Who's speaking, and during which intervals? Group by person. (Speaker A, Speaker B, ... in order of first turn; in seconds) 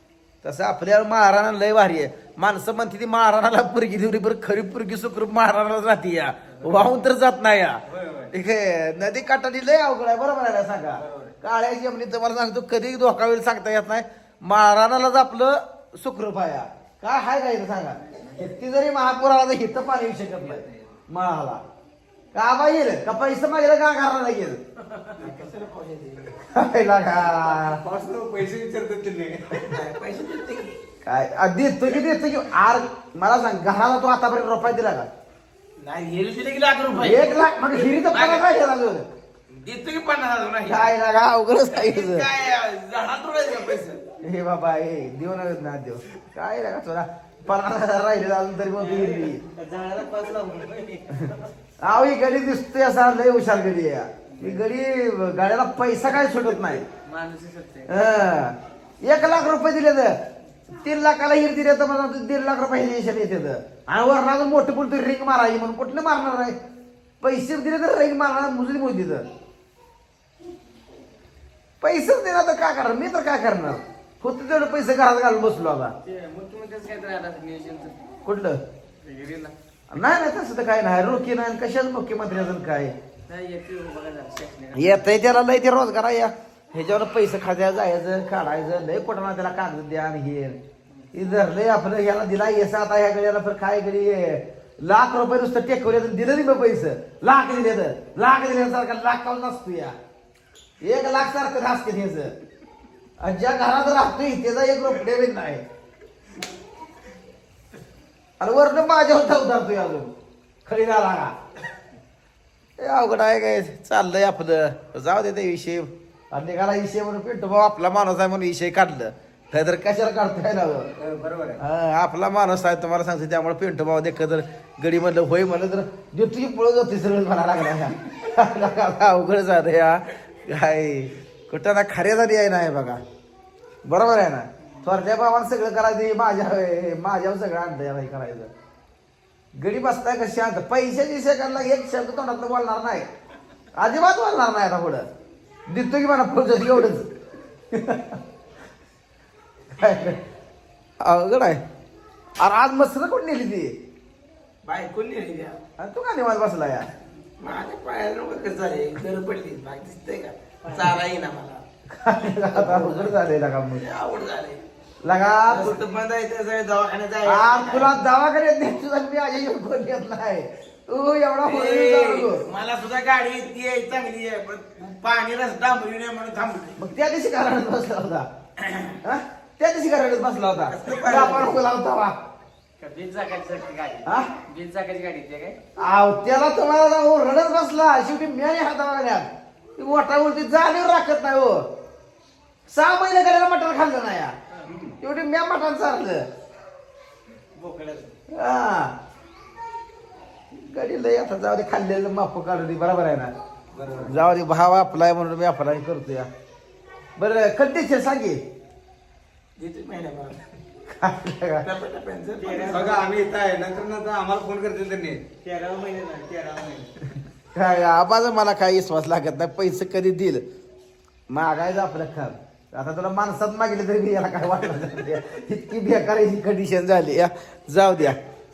Speaker A: 0.4-21.6, 22.3-24.6, 26.5-27.8, 31.1-35.1, 37.0-39.1, 40.7-42.3, 44.2-49.4, 51.8-56.9, 57.9-60.2, 60.8-66.6, 67.2-69.3, 71.8-75.9, 78.2-78.6, 79.9-83.0, 84.8-90.6, 91.1-100.0, 100.8-102.3, 103.2-105.6, 108.4-110.1, 110.7-111.3, 112.8-120.9, 121.6-133.0, 133.8-138.5, 139.6-143.1, 143.8-145.1, 145.7-147.1, 147.7-148.2, 149.8-150.2, 151.0-151.6, 152.4-153.7, 155.8-156.9, 161.9-163.8, 165.0-165.8, 167.3-172.4, 176.8-178.3, 179.0-182.2, 184.1-184.3, 185.8-191.7, 192.7-194.3, 195.0-196.3, 198.3-198.9, 200.5-203.3, 204.0-206.3, 207.2-208.4, 210.9-211.7, 217.5-220.4, 221.3-228.2
Speaker B: 7.9-8.3, 11.0-11.3, 27.5-29.6, 121.0-121.6, 194.7-195.0, 203.7-204.2, 212.6-215.3
Speaker C: 25.2-26.4, 29.6-30.8, 35.8-38.5, 39.5-41.0, 41.7-44.0, 154.6-155.6, 157.4-161.6, 162.5-163.1, 163.8-164.6, 165.5-167.9, 171.4-176.8, 178.6-179.0, 180.7-181.6, 209.6-210.4, 211.6-213.1, 215.6-216.1
Speaker D: 49.0-51.5, 54.3-54.6, 57.0-58.1, 76.0-78.0, 79.0-79.5, 83.3-85.1, 182.8-185.6, 212.4-213.0, 216.4-216.9